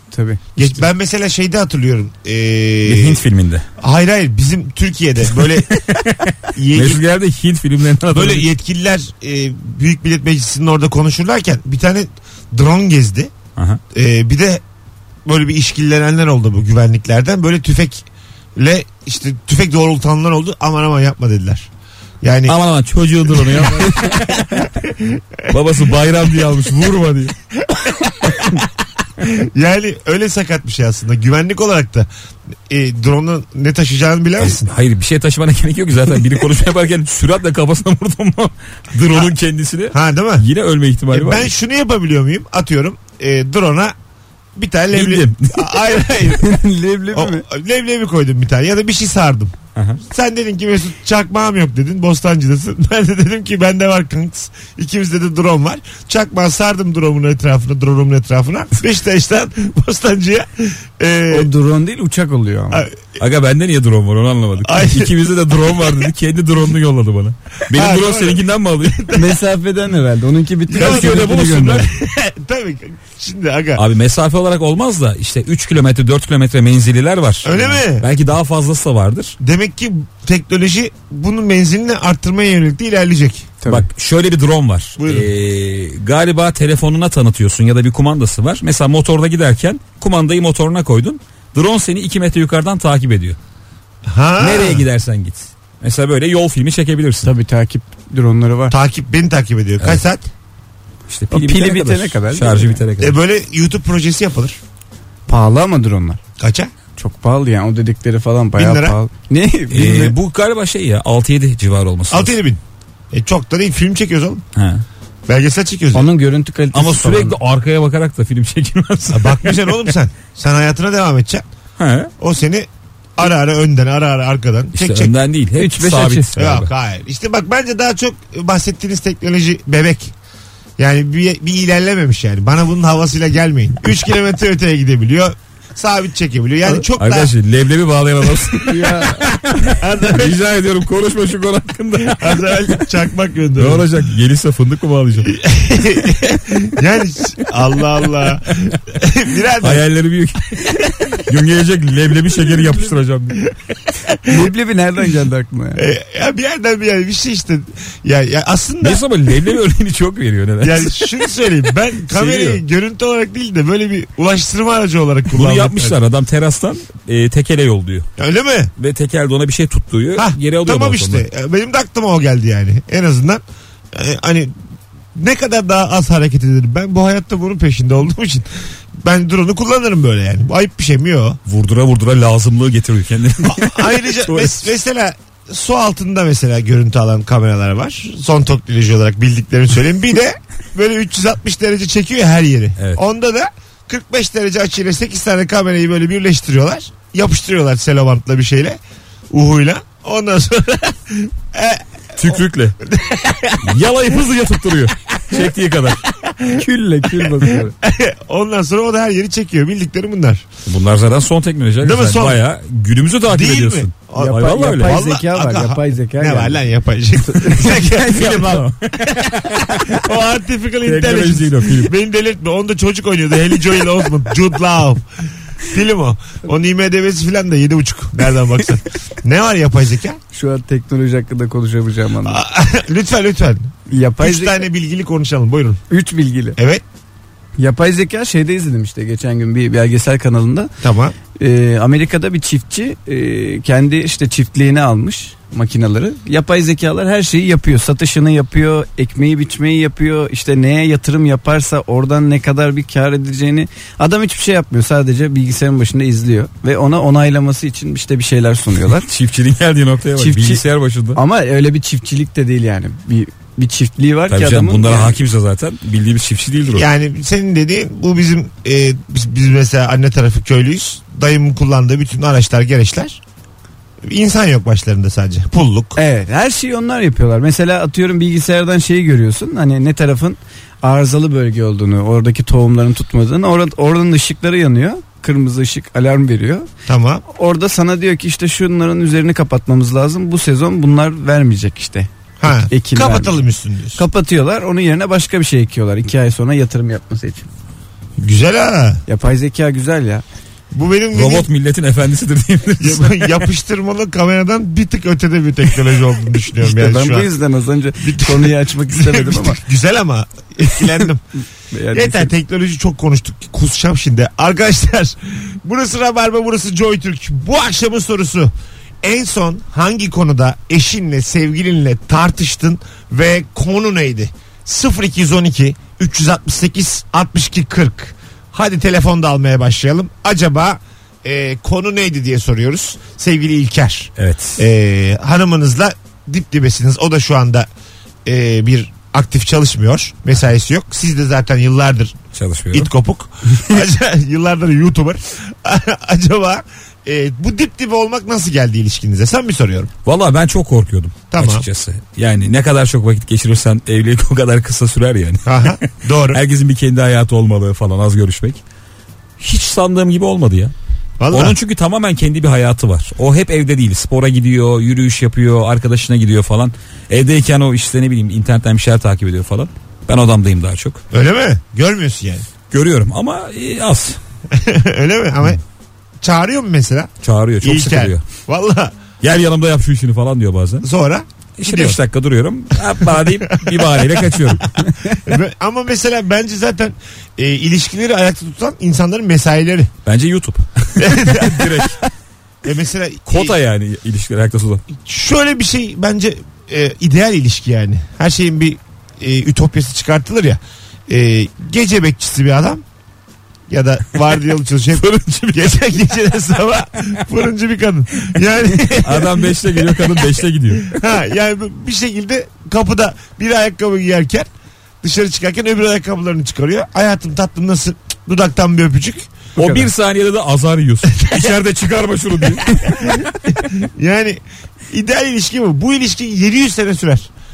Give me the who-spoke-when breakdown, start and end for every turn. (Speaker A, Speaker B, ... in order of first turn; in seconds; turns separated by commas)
Speaker A: 0.1-0.4, Speaker B: 0.6-3.2, Speaker C: 2.9-3.6, Speaker B: 3.8-5.8, Speaker C: 5.8-8.4, Speaker B: 6.5-7.0, Speaker B: 8.1-13.3, Speaker B: 13.9-14.6, Speaker B: 15.2-18.0, Speaker B: 18.6-21.7, Speaker B: 22.2-22.6, Speaker C: 22.5-24.7, Speaker B: 23.3-25.6, Speaker C: 25.5-27.3, Speaker B: 27.7-28.6, Speaker B: 29.2-32.1, Speaker B: 32.7-34.7, Speaker C: 34.4-41.5, Speaker B: 39.9-40.5, Speaker B: 41.1-43.9, Speaker B: 44.5-46.6, Speaker C: 44.9-45.9, Speaker A: 46.4-47.4, Speaker B: 47.1-49.5, Speaker C: 49.7-50.0, Speaker B: 50.0-61.5, Speaker A: 61.3-62.9, Speaker B: 62.7-63.2, Speaker C: 63.2-69.1, Speaker B: 64.6-65.2, Speaker B: 67.7-69.2, Speaker A: 69.1-71.8, Speaker C: 70.7-71.9, Speaker B: 70.7-73.8, Speaker C: 73.8-79.3, Speaker B: 77.4-78.1, Speaker B: 79.4-83.5, Speaker A: 83.6-83.9, Speaker C: 83.7-93.4, Speaker B: 85.0-85.3, Speaker B: 94.0-94.8, Speaker C: 94.4-97.3, Speaker A: 97.2-98.7, Speaker B: 98.7-100.3, Speaker C: 101.1-103.2, Speaker A: 101.3-102.8, Speaker B: 103.0-104.6, Speaker A: 105.3-106.2, Speaker B: 106.4-106.7, Speaker A: 107.0-110.1, Speaker B: 108.6-109.0, Speaker C: 109.7-112.3, Speaker B: 112.1-112.6, Speaker B: 113.1-114.4, Speaker C: 114.5-114.8, Speaker B: 115.3-116.1, Speaker A: 115.9-117.4, Speaker C: 116.7-119.9, Speaker B: 119.1-121.4, Speaker C: 121.8-122.1, Speaker B: 122.2-125.1, Speaker C: 124.7-126.7, Speaker A: 125.6-126.3, Speaker B: 126.3-130.1, Speaker B: 130.8-137.3, Speaker C: 136.9-139.5, Speaker A: 138.6-139.3, Speaker B: 139.5-140.4, Speaker C: 140.1-142.9, Speaker B: 142.0-143.9, Speaker C: 143.6-145.4, Speaker B: 145.2-149.8, Speaker C: 149.6-153.4, Speaker B: 153.5-154.5, Speaker A: 154.3-155.8, Speaker B: 155.8-159.0, Speaker C: 158.8-161.0, Speaker B: 160.6-166.0, Speaker C: 162.1-162.6, Speaker C: 165.3-168.1, Speaker B: 168.2-168.7, Speaker C: 168.8-171.2, Speaker B: 170.2-173.4, Speaker B: 173.9-174.5, Speaker B: 175.1-181.4, Speaker C: 181.4-184.7, Speaker B: 183.5-198.8, Speaker B: 199.3-203.7, Speaker C: 202.1-202.8, Speaker C: 203.6-206.0, Speaker B: 206.1-210.4, Speaker A: 206.6-207.7, Speaker C: 210.7-214.9, Speaker B: 211.8-212.4, Speaker B: 213.3-225.1, Speaker A: 214.2-216.6, Speaker A: 217.2-218.4, Speaker C: 218.1-220.0, Speaker C: 220.8-221.9, Speaker B: 225.6-230.2, Speaker A: 230.3-232.4, Speaker B: 232.2-235.8, Speaker A: 233.9-234.7, Speaker A: 235.9-236.6, Speaker B: 236.6-236.8, Speaker A: 237.6-240.7, Speaker B: 240.8-241.1, Speaker A: 241.3-259.1, Speaker C: 258.9-261.2, Speaker A: 260.2-260.6, Speaker A: 261.1-265.2, Speaker C: 264.3-266.9, Speaker B: 266.7-273.2, Speaker B: 274.0-276.0, Speaker A: 276.0-286.7, Speaker B: 286.9-287.2, Speaker A: 287.3-293.4, Speaker B: 292.4-294.0, Speaker A: 293.9-297.5, Speaker B: 298.2-299.0, Speaker A: 299.1-300.2, Speaker B: 300.7-301.5, Speaker C: 301.1-303.4, Speaker B: 302.8-307.4, Speaker A: 306.6-309.6, Speaker B: 308.0-311.2, Speaker A: 311.7-312.3, Speaker B: 311.9-337.7, Speaker C: 334.2-334.6, Speaker B: 338.2-342.2, Speaker C: 342.3-342.9, Speaker B: 342.7-349.9, Speaker C: 350.0-358.6, Speaker B: 351.3-351.7, Speaker B: 355.4-356.4, Speaker C: 359.4-360.7, Speaker B: 361.2-361.6, Speaker C: 361.3-371.0, Speaker B: 371.1-372.5, Speaker C: 372.7-374.2, Speaker B: 374.5-375.6, Speaker B: 376.2-377.1, Speaker C: 377.2-378.2, Speaker B: 377.6-378.9, Speaker C: 379.2-380.9, Speaker B: 380.8-382.0, Speaker C: 381.6-384.7, Speaker B: 383.0-389.9, Speaker C: 390.1-392.0, Speaker B: 391.0-391.9, Speaker B: 392.6-393.6, Speaker C: 393.3-394.8, Speaker B: 394.9-402.8, Speaker B: 403.7-414.5, Speaker C: 404.9-405.9, Speaker C: 408.9-411.0, Speaker B: 415.0-419.3, Speaker A: 419.6-419.9, Speaker C: 419.6-423.6, Speaker B: 421.2-421.5, Speaker B: 423.8-427.3